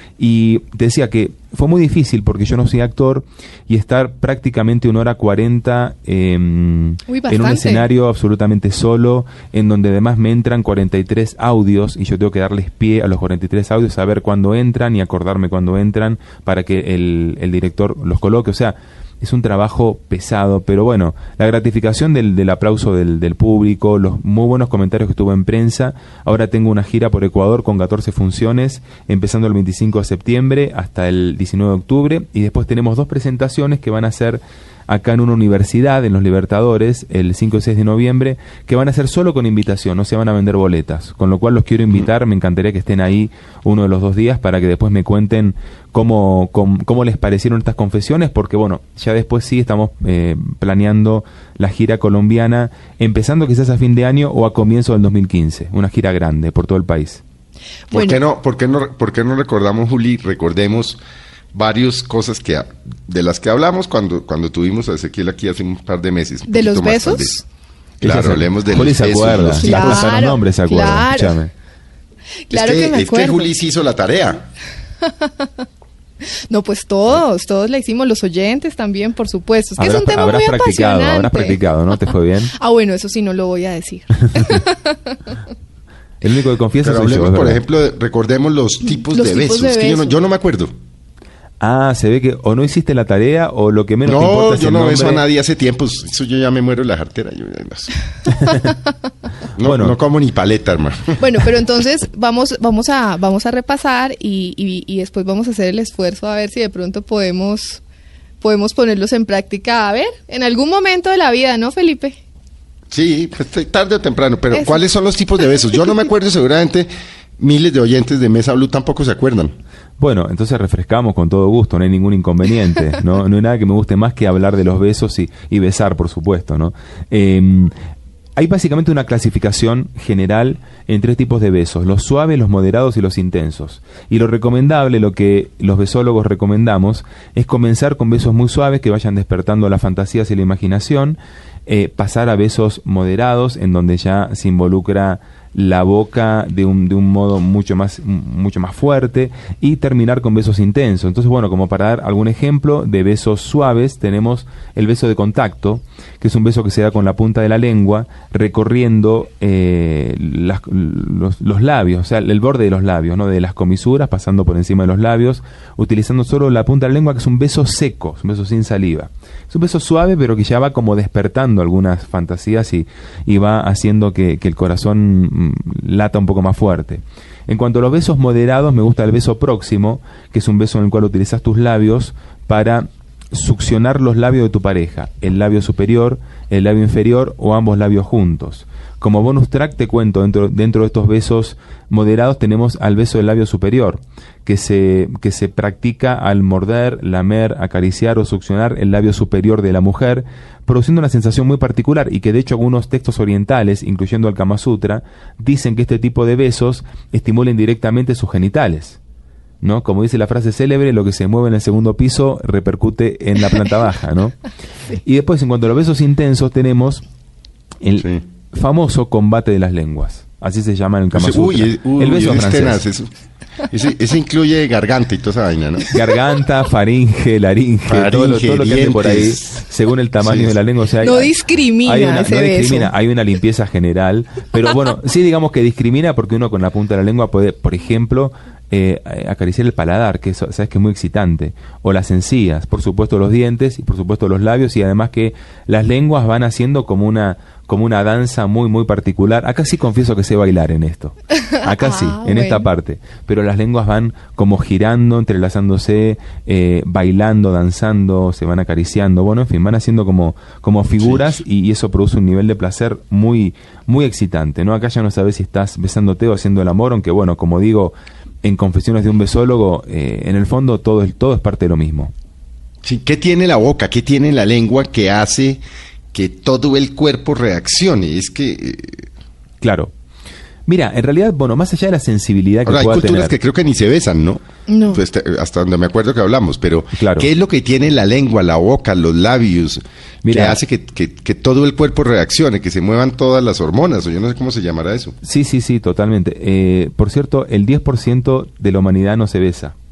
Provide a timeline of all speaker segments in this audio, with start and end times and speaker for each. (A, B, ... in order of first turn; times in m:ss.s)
0:00.2-0:57.2 A
0:07.1-0:07.8 B
0:57.9-0:58.2 B
0:57.9-1:01.0 C
1:01.5-1:07.4 C
1:06.5-1:07.4 B
1:08.0-1:11.5 A
1:08.0-1:10.1 C
1:09.5-1:11.4 B
1:12.5-1:13.5 B
1:12.5-1:14.4 C
1:15.0-1:15.6 B
1:16.3-1:21.6 B
1:19.8-1:22.5 A
1:22.5-1:25.3 B
1:26.2-1:27.6 A
1:26.8-1:30.7 C
1:28.9-1:30.2 B
1:31.6-1:35.2 A
1:34.0-1:37.9 C
1:38.3-1:38.7 A
1:39.6-1:41.2 C
1:39.6-1:40.0 A
1:41.2-1:47.8 B
1:48.4-1:52.2 B
1:52.9-1:59.5 C
1:54.5-1:54.8 B
2:00.0-2:07.7 A
2:08.4-3:29.0 A
3:29.6-3:34.4 A
3:34.9-3:37.0 A
3:37.8-3:42.8 A
3:41.1-3:43.1 C
3:43.7-3:45.9 C
3:45.9-4:32.1 A
3:47.9-3:49.6 C
3:50.2-3:50.5 C
3:51.0-3:52.9 B
4:11.6-4:12.7 B
4:32.8-4:35.6 C
4:36.1-4:39.1 C
4:39.6-4:39.9 A
4:40.7-4:43.3 A
4:42.6-4:55.2 C
4:44.7-4:45.0 B
4:46.9-4:47.3 A
4:50.2-4:50.6 A
4:55.2-4:59.7 A